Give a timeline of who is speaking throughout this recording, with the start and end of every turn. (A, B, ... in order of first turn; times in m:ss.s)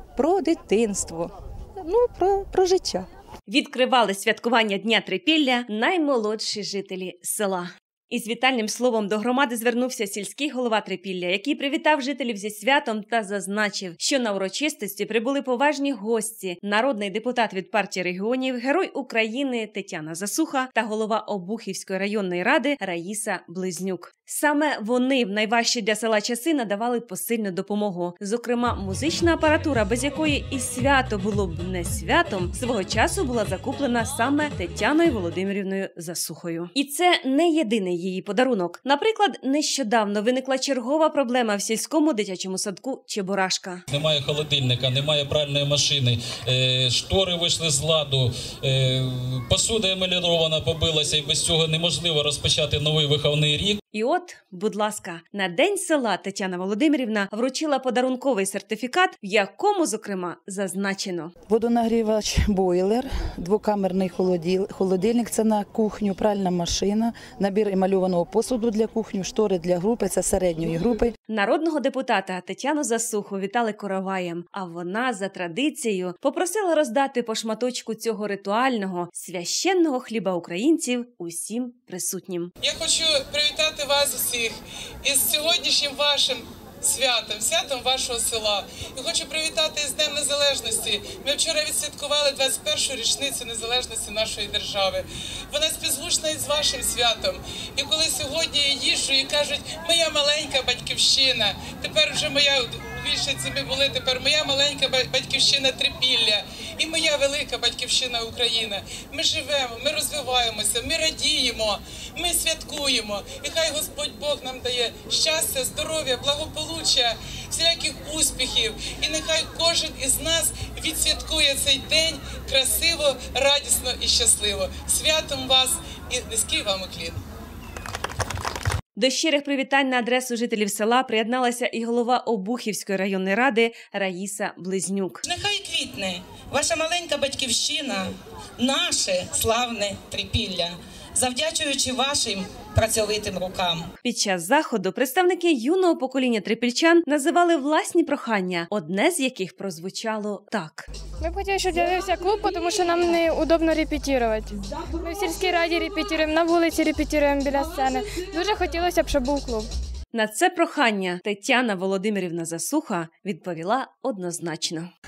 0:00.2-0:03.1 A
0:03.5-0:43.8 B
0:43.9-0:53.8 C
0:53.9-1:01.3 B
1:01.5-1:11.1 D
1:11.3-1:22.5 B
1:22.6-2:07.2 E
2:08.9-2:15.2 B
2:15.2-2:23.9 F
2:24.0-2:30.9 B
2:31.2-2:39.7 G
2:40.1-2:44.9 B